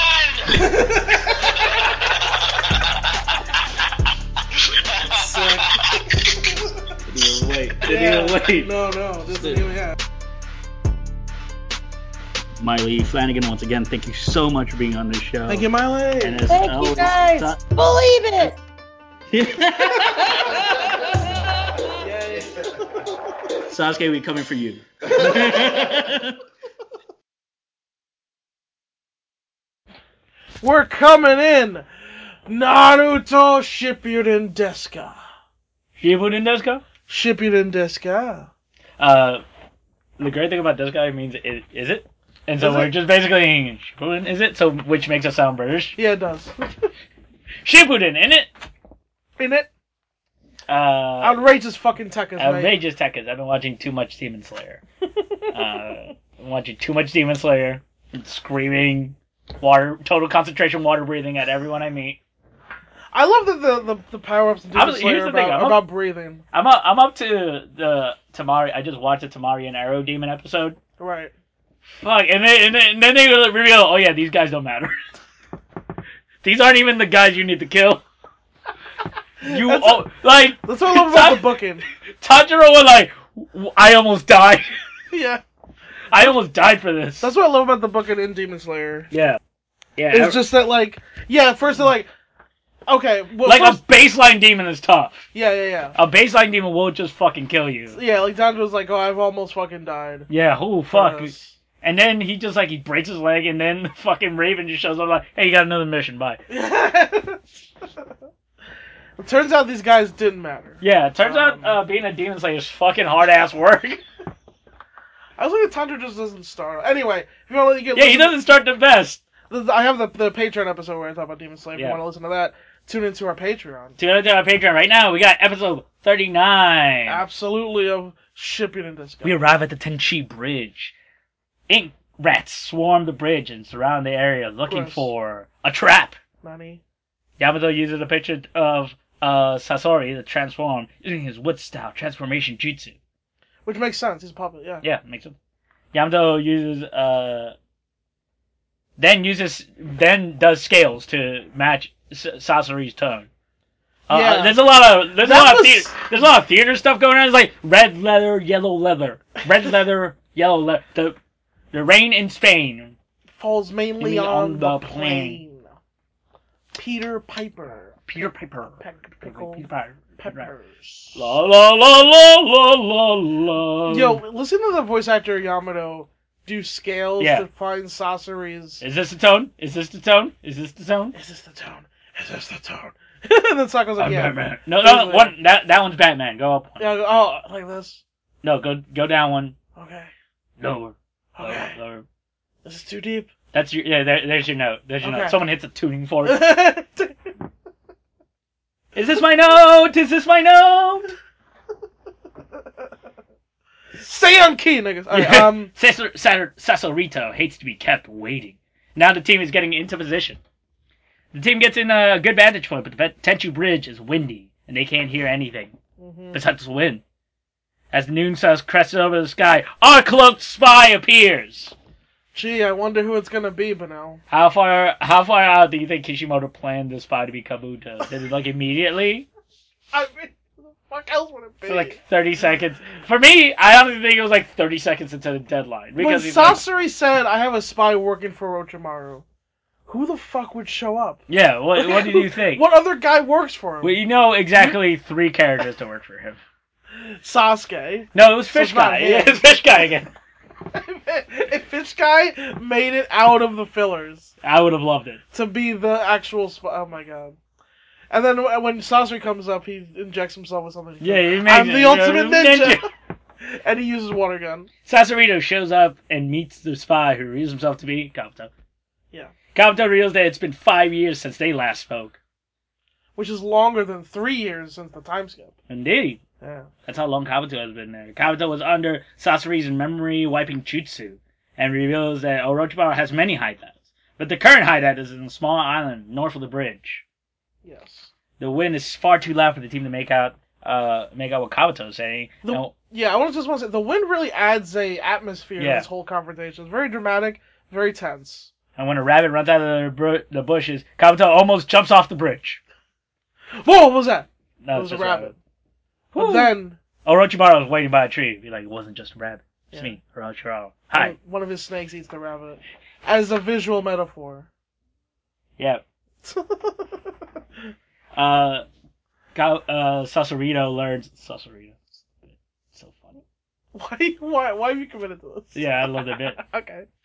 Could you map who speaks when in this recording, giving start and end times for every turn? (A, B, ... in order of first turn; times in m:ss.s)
0:00.4-0:01.6 A
0:05.0-0:06.9 A
0:07.0-0:08.7 B
0:07.8-0:10.0 A
0:09.3-0:09.7 B
0:12.6-0:15.6 B
0:15.5-0:16.4 A
0:16.2-0:17.6 B
0:16.5-0:18.6 C
0:19.3-0:20.8 B
0:22.0-0:23.2 A
0:23.7-0:26.4 B
0:25.3-0:25.6 A
0:30.6-0:31.8 A
0:32.5-0:35.2 A
0:36.0-0:36.8 B
0:37.1-0:38.5 A
0:39.0-0:39.4 B
0:40.2-0:46.0 B
0:42.6-0:42.9 A
0:46.0-0:46.5 A
0:47.6-0:48.5 B
0:49.4-0:49.7 A
0:50.7-0:51.4 B
0:51.2-0:52.8 A
0:52.4-0:54.8 B
0:55.1-0:55.5 A
0:55.5-1:02.2 B
1:03.1-1:06.4 A
1:04.7-1:05.8 B
1:06.5-1:10.8 B
1:11.0-1:11.3 A
1:11.8-1:15.0 B
1:16.4-1:18.0 B
1:19.4-1:20.0 A
1:19.4-1:21.5 B
1:20.6-1:21.8 A
1:22.1-1:24.7 B
1:25.1-1:25.4 A
1:26.1-1:27.3 B
1:27.2-1:29.1 A
1:29.1-1:29.4 B
1:30.0-1:30.4 B
1:30.1-1:32.1 A
1:32.9-1:33.8 A
1:33.4-1:35.3 B
1:35.3-1:36.0 A
1:36.0-1:38.0 B
1:37.9-1:40.3 A
1:40.3-1:46.4 B
1:40.9-1:41.5 A
1:46.5-1:47.5 A
1:49.2-1:51.8 A
1:50.8-1:54.0 B
1:55.4-1:58.4 A
1:57.9-1:59.2 B
1:59.5-2:04.0 A
2:04.0-2:07.2 B
2:07.0-2:09.4 A
2:09.2-2:10.9 B
2:11.7-2:16.2 B
2:14.7-2:15.1 A
2:16.4-2:16.8 A
2:17.4-2:22.9 B
2:23.6-2:24.8 A
2:24.8-2:25.4 B
2:25.9-2:27.5 B
2:29.0-2:33.3 B
2:34.1-2:41.2 B
2:34.1-2:34.6 A
2:35.2-2:36.2 A
2:41.7-2:43.0 B
2:43.3-2:45.7 A
2:44.0-2:45.4 B
2:46.8-2:48.0 A
2:48.1-2:50.5 B
2:48.8-2:49.6 A
2:50.2-2:51.3 A
2:51.1-2:54.2 B
2:53.9-2:58.8 A
2:57.2-2:57.4 B
2:58.8-3:01.2 B
3:01.1-3:05.3 A
3:04.0-3:06.9 B
3:06.8-3:08.0 A
3:08.4-3:09.6 B
3:09.8-3:10.1 A
3:10.6-3:12.0 B
3:11.3-3:11.7 A
3:12.6-3:13.3 A
3:13.5-3:16.5 B
3:15.0-3:15.4 A
3:16.2-3:17.1 A
3:18.9-3:21.1 B
3:24.0-3:25.7 A
3:25.1-3:30.4 B
3:31.3-3:35.7 B
3:36.0-3:36.4 A
3:36.3-3:37.0 B
3:37.9-3:41.7 B
3:42.3-3:44.2 A
3:44.3-3:49.2 B
3:49.9-3:52.0 A
3:51.6-3:56.6 B
3:56.0-3:59.2 A
3:59.9-4:01.2 A
4:01.3-4:02.6 B
4:01.8-4:04.0 A
4:03.8-4:06.4 B
4:07.0-4:09.4 A
4:08.1-4:10.1 B
4:10.7-4:14.3 A
4:14.4-4:15.2 B
4:15.3-4:17.4 A
4:18.1-4:22.8 A
4:21.0-4:22.8 B
4:23.4-4:24.7 A
4:24.8-4:28.5 B
4:29.5-4:32.2 B
4:33.2-4:35.5 A
4:35.7-4:36.2 B
4:36.4-4:36.7 A
4:36.8-4:47.0 B
4:47.6-4:48.1 A
4:48.4-4:52.7 B
4:52.4-4:58.5 A
4:55.6-4:55.9 B
4:58.8-5:02.6 B
5:03.6-5:05.4 A
5:04.6-5:05.3 B
5:06.1-5:06.5 B
5:06.2-5:06.8 A
5:07.0-5:11.1 B
5:10.9-5:14.5 A
5:15.6-5:15.8 B
5:16.2-5:17.0 A
5:18.1-5:18.6 B
5:19.3-5:23.2 B
5:23.7-5:26.8 A
5:25.5-5:26.4 B